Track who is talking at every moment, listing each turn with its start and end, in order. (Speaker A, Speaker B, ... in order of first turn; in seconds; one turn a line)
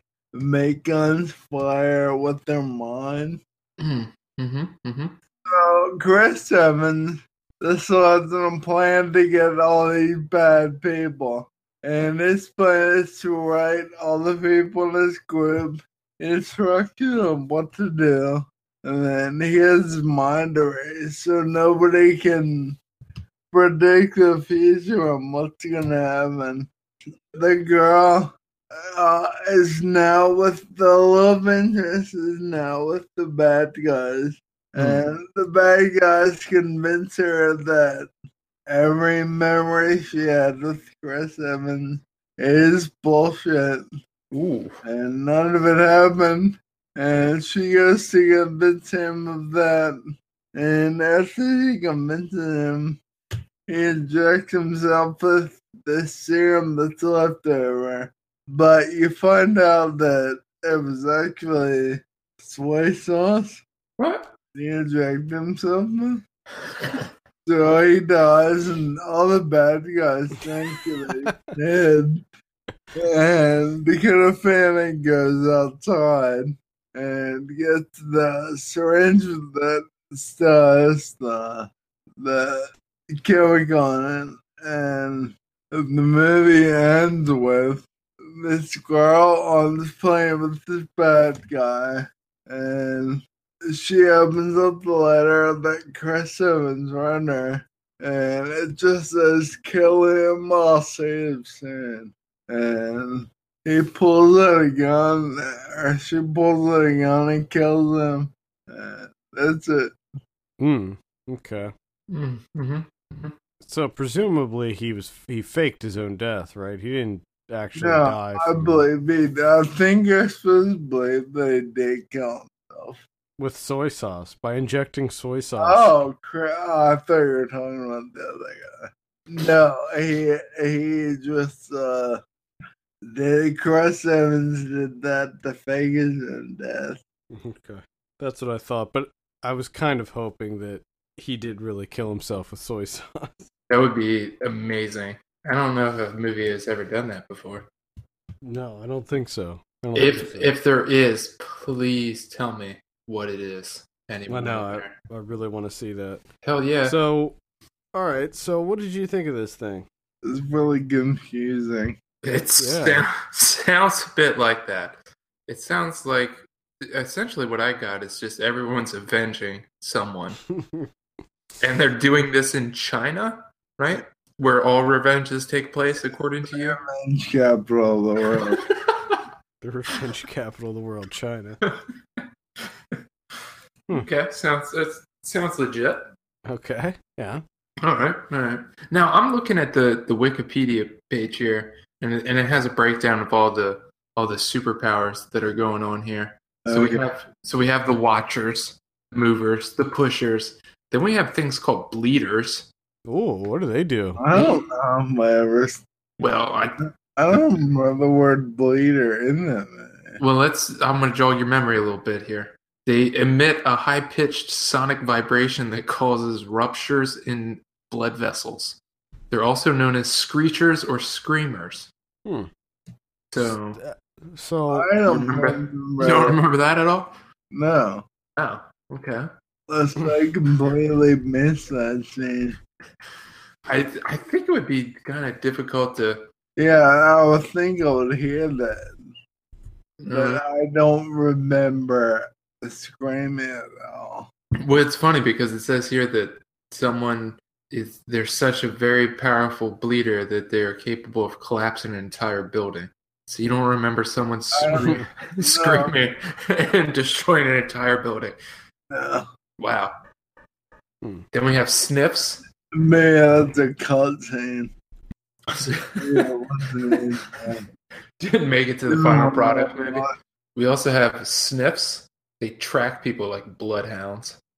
Speaker A: 0.3-3.4
Speaker B: 3.8-5.2
Speaker A: 5.5-22.8
Speaker A: 23.5-26.7
Speaker A: 27.3-38.1
Speaker A: 38.7-43.9
Speaker B: 44.3-44.8
Speaker A: 44.8-50.0
Speaker A: 50.5-53.0
Speaker A: 53.7-63.6
Speaker B: 64.0-64.3
Speaker A: 64.5-66.2
Speaker A: 67.5-72.2
Speaker A: 72.9-109.9
Speaker C: 110.6-111.7
Speaker B: 112.1-113.3
Speaker C: 113.6-118.9
Speaker A: 117.8-123.0
Speaker C: 123.4-125.9
Speaker A: 125.6-132.2
Speaker A: 133.1-137.0
Speaker C: 137.3-143.4
Speaker B: 143.7-147.7
Speaker C: 148.4-150.5
Speaker B: 149.9-154.9
Speaker C: 154.3-156.2
Speaker B: 156.4-157.0
Speaker C: 156.8-157.4
Speaker C: 157.9-159.9
Speaker A: 160.2-162.0
Speaker B: 162.2-170.4
Speaker C: 162.6-163.1
Speaker C: 170.5-170.9
Speaker B: 171.6-176.8
Speaker A: 176.4-178.6
Speaker B: 178.4-179.2
Speaker C: 179.6-181.6
Speaker B: 181.6-182.2
Speaker B: 183.9-186.1
Speaker C: 186.5-187.4
Speaker B: 187.8-202.7
Speaker A: 196.6-197.0
Speaker C: 203.1-204.2
Speaker A: 204.2-205.8
Speaker B: 204.3-204.6
Speaker B: 206.2-206.8
Speaker A: 207.2-210.2
Speaker B: 210.2-218.8
Speaker B: 219.3-221.9
Speaker B: 223.3-223.8
Speaker C: 223.4-224.9
Speaker A: 224.7-226.4
Speaker B: 225.1-227.2
Speaker A: 227.5-228.0
Speaker B: 228.4-229.3
Speaker A: 229.7-232.6
Speaker B: 233.7-236.3
Speaker A: 236.6-238.9
Speaker B: 240.0-240.4
Speaker A: 240.1-244.3
Speaker B: 244.6-258.4
Speaker A: 254.5-255.9
Speaker C: 254.8-255.0
Speaker A: 258.9-259.2
Speaker B: 259.6-259.9
Speaker B: 261.3-262.4
Speaker A: 262.7-264.7
Speaker B: 265.5-266.3
Speaker A: 265.9-267.6
Speaker B: 268.2-274.4
Speaker A: 268.9-270.1